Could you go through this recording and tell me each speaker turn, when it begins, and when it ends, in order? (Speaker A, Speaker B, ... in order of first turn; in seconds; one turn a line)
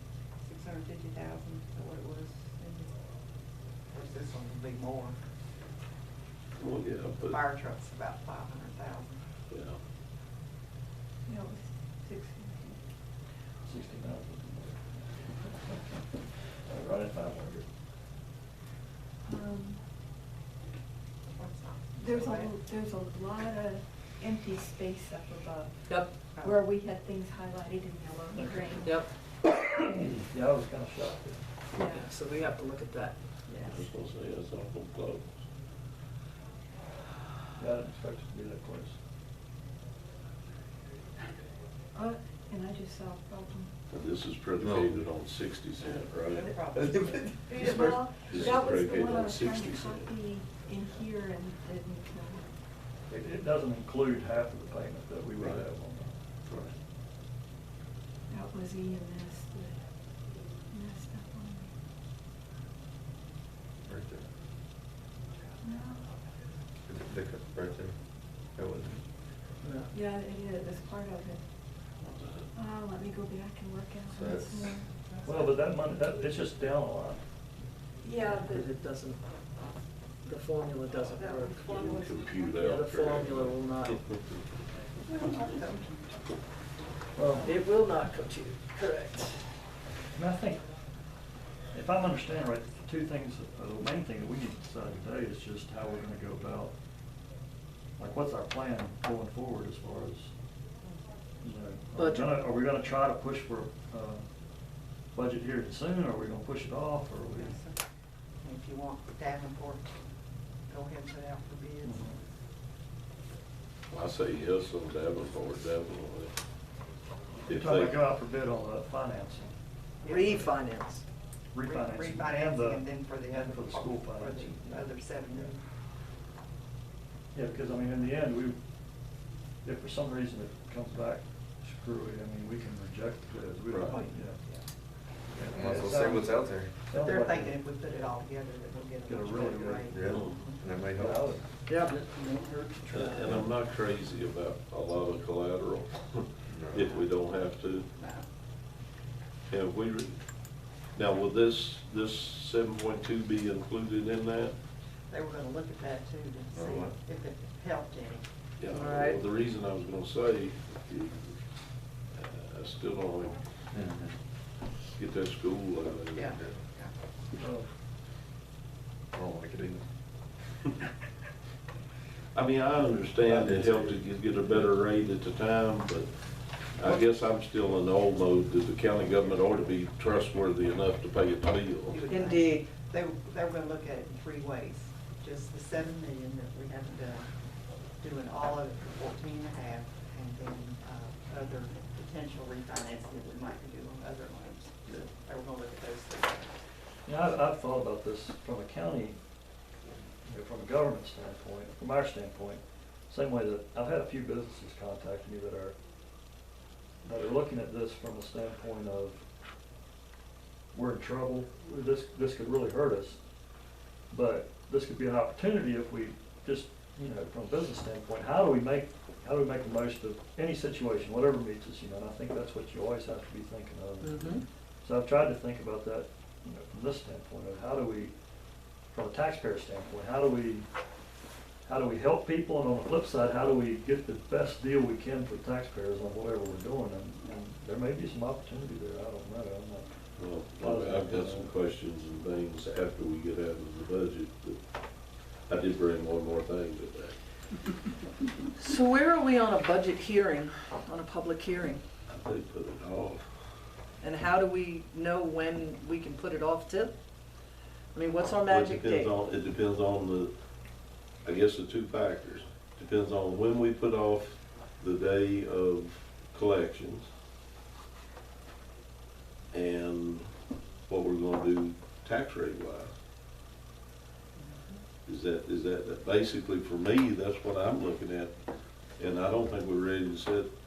Speaker A: 0.4-3.0
Speaker A: 3.9-5.2
Speaker B: 6.5-7.4
Speaker A: 7.2-9.2
Speaker B: 9.5-9.8
Speaker C: 11.2-12.8
Speaker D: 13.6-17.7
Speaker C: 19.2-19.8
Speaker A: 21.3-22.5
Speaker C: 22.0-28.9
Speaker A: 26.3-26.6
Speaker D: 28.3-31.4
Speaker E: 28.8-29.1
Speaker E: 31.8-33.1
Speaker C: 31.8-32.0
Speaker C: 33.5-33.9
Speaker B: 33.6-35.2
Speaker D: 37.6-39.0
Speaker C: 41.9-43.7
Speaker B: 43.9-46.6
Speaker F: 44.6-45.0
Speaker A: 45.8-47.3
Speaker F: 46.7-48.5
Speaker C: 47.5-52.4
Speaker B: 47.5-50.1
Speaker D: 53.1-56.2
Speaker B: 55.4-55.6
Speaker F: 56.5-56.7
Speaker C: 58.3-59.8
Speaker C: 60.7-61.7
Speaker F: 63.8-64.3
Speaker C: 65.6-66.0
Speaker F: 66.9-68.0
Speaker F: 68.5-69.0
Speaker E: 69.6-69.9
Speaker C: 69.9-71.4
Speaker B: 72.1-72.5
Speaker C: 72.5-74.8
Speaker F: 74.1-74.8
Speaker D: 75.2-77.2
Speaker C: 78.0-78.7
Speaker E: 78.4-79.2
Speaker E: 80.2-82.0
Speaker B: 81.5-83.9
Speaker E: 82.6-84.0
Speaker A: 85.0-86.2
Speaker D: 87.2-87.6
Speaker E: 87.4-89.4
Speaker D: 90.1-90.7
Speaker D: 91.7-96.7
Speaker D: 98.0-100.3
Speaker D: 101.4-104.2
Speaker E: 102.0-102.3
Speaker D: 105.1-107.6
Speaker A: 107.3-107.8
Speaker A: 108.4-110.0
Speaker A: 110.7-112.1
Speaker D: 111.8-112.2
Speaker B: 113.9-116.3
Speaker D: 117.4-119.5
Speaker B: 117.5-118.0
Speaker A: 120.0-120.5
Speaker E: 120.0-121.0
Speaker D: 121.5-125.5
Speaker A: 121.6-125.6
Speaker D: 127.3-128.6
Speaker D: 129.6-134.4
Speaker B: 133.7-134.1
Speaker A: 133.9-134.6
Speaker D: 135.3-137.6
Speaker F: 135.5-136.7
Speaker A: 136.9-140.6
Speaker D: 139.1-140.1
Speaker F: 139.9-141.4
Speaker B: 140.1-140.5
Speaker D: 141.0-141.4
Speaker E: 141.7-143.4
Speaker B: 142.9-147.9
Speaker F: 146.5-147.0
Speaker A: 147.9-148.2
Speaker B: 149.5-150.2
Speaker B: 150.9-154.5
Speaker A: 155.1-158.2
Speaker F: 156.5-156.9
Speaker B: 158.6-161.3
Speaker E: 158.7-159.2
Speaker B: 162.1-163.4
Speaker F: 163.7-164.1
Speaker B: 164.9-166.4
Speaker A: 166.1-166.9
Speaker D: 167.4-167.7
Speaker F: 169.1-169.8
Speaker B: 172.3-176.1
Speaker F: 173.2-174.6
Speaker B: 176.8-182.0
Speaker A: 181.9-187.3
Speaker E: 182.1-182.7
Speaker A: 188.0-196.5
Speaker D: 197.1-199.2
Speaker D: 200.2-205.8
Speaker D: 207.0-209.2
Speaker D: 210.7-213.2
Speaker D: 214.1-228.1
Speaker E: 224.0-224.4
Speaker D: 228.9-230.7
Speaker D: 231.6-239.9
Speaker B: 240.2-244.6
Speaker D: 240.4-241.5
Speaker B: 245.5-247.2
Speaker E: 248.6-251.8
Speaker B: 252.1-253.2
Speaker E: 254.0-256.9
Speaker E: 257.9-259.1
Speaker B: 258.4-260.3
Speaker B: 261.2-267.1
Speaker B: 269.5-270.3
Speaker B: 270.9-272.9
Speaker A: 274.3-274.8
Speaker B: 275.1-278.3
Speaker B: 279.0-280.5